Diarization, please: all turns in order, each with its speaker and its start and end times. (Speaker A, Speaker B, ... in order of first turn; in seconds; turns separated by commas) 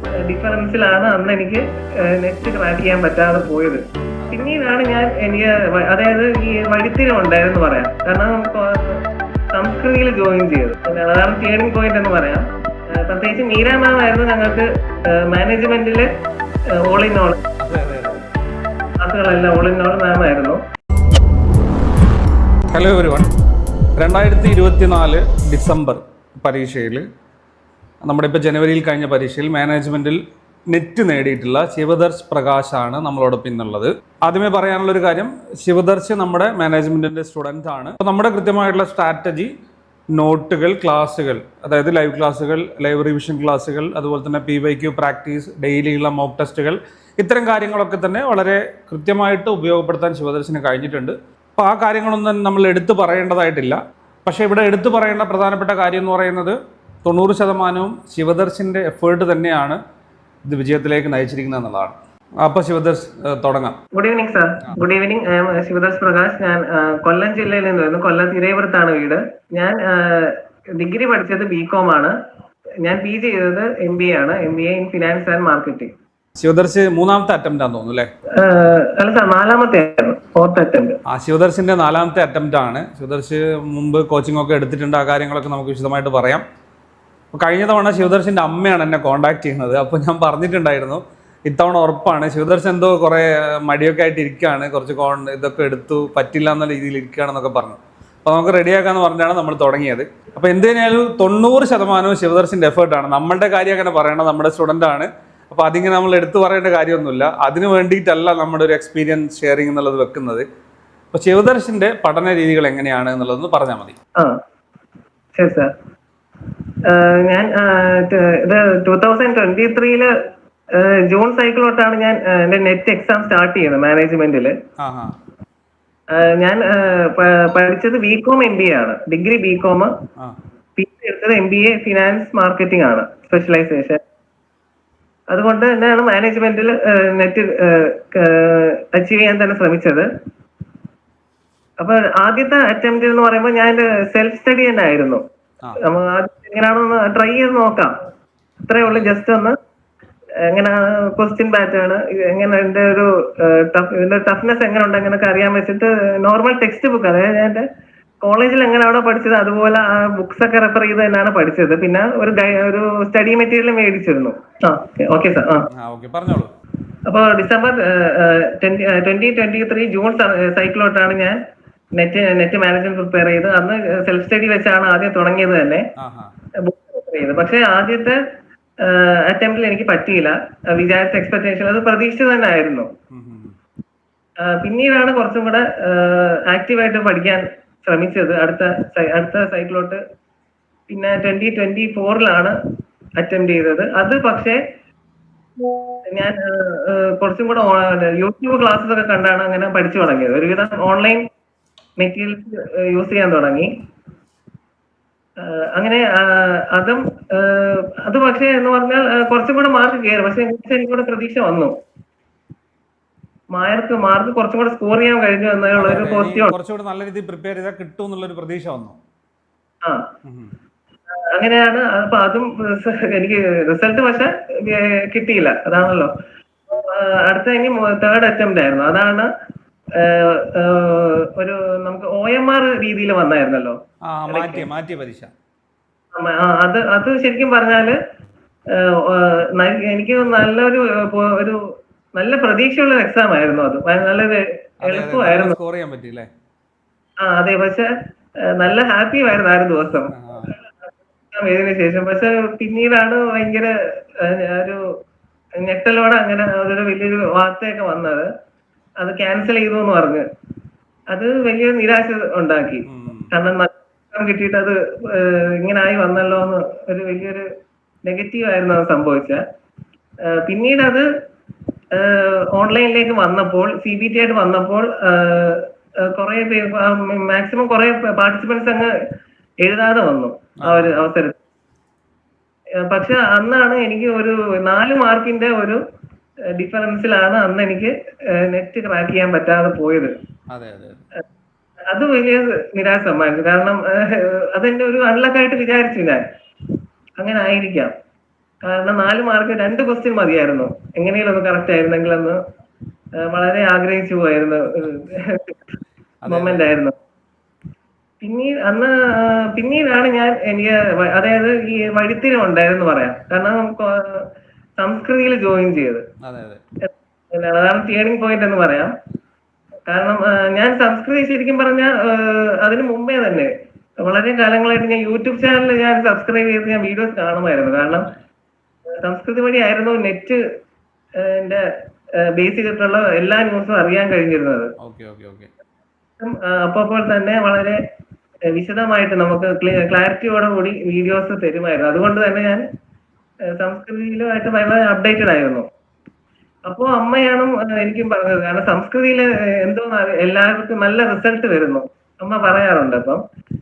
Speaker A: 0.2-9.0, Speaker B: 4.2-4.5, Speaker A: 9.5-16.1, Speaker A: 16.7-17.4, Speaker B: 17.6-18.3, Speaker A: 19.0-20.6, Speaker B: 22.7-23.3, Speaker B: 24.0-27.0, Speaker B: 28.0-30.2, Speaker B: 30.7-39.5, Speaker B: 40.1-59.8, Speaker B: 60.5-63.7, Speaker A: 63.9-72.1, Speaker A: 72.8-75.9, Speaker B: 76.4-78.1, Speaker A: 78.4-81.0, Speaker B: 81.1-86.4, Speaker B: 87.3-110.4, Speaker B: 111.1-113.9, Speaker A: 115.3-115.7, Speaker A: 116.9-120.1, Speaker A: 120.7-124.5, Speaker B: 124.8-125.1, Speaker A: 126.2-129.9, Speaker A: 130.8-134.0, Speaker A: 135.3-140.1, Speaker A: 141.8-145.2, Speaker A: 145.8-147.9, Speaker A: 148.7-149.5, Speaker B: 148.8-149.1, Speaker A: 150.5-157.6, Speaker A: 158.2-165.7, Speaker B: 165.8-166.5, Speaker A: 167.1-171.4, Speaker A: 172.0-175.8, Speaker B: 176.0-176.3, Speaker A: 176.6-178.2, Speaker A: 178.8-182.9, Speaker B: 183.1-183.5, Speaker A: 184.4-190.0, Speaker A: 190.9-192.6, Speaker A: 193.2-194.6, Speaker A: 196.1-201.2, Speaker A: 202.0-203.7, Speaker A: 205.4-211.7, Speaker A: 213.5-216.5, Speaker B: 215.8-218.9, Speaker B: 220.2-220.5, Speaker A: 221.3-226.1, Speaker A: 226.7-229.3, Speaker A: 230.0-233.8, Speaker B: 234.1-235.3, Speaker A: 234.3-234.7, Speaker A: 236.1-237.9, Speaker A: 238.7-241.6, Speaker A: 242.2-245.5, Speaker B: 244.8-246.3, Speaker A: 247.2-247.9, Speaker A: 248.5-250.6, Speaker B: 250.1-250.5, Speaker A: 251.3-254.8, Speaker A: 255.6-258.2, Speaker A: 259.0-260.2, Speaker A: 261.1-267.4, Speaker B: 262.9-263.3, Speaker A: 268.0-269.4, Speaker A: 270.3-271.0, Speaker A: 271.9-278.9, Speaker A: 279.6-281.3, Speaker B: 280.6-281.0, Speaker A: 282.8-285.8, Speaker A: 286.6-290.1, Speaker B: 290.5-291.0, Speaker A: 291.9-296.2, Speaker A: 297.2-297.9, Speaker A: 298.6-302.4, Speaker A: 303.2-305.6, Speaker B: 306.2-306.7, Speaker A: 306.3-306.9, Speaker A: 308.2-314.3, Speaker A: 314.8-316.0, Speaker B: 316.2-316.6, Speaker A: 316.8-318.9, Speaker A: 319.9-323.5, Speaker A: 324.0-328.1, Speaker A: 329.0-330.4, Speaker A: 331.2-331.6, Speaker A: 332.2-334.7, Speaker B: 334.8-335.5, Speaker A: 336.2-337.8, Speaker A: 338.5-342.6, Speaker A: 343.6-345.6, Speaker A: 346.6-353.2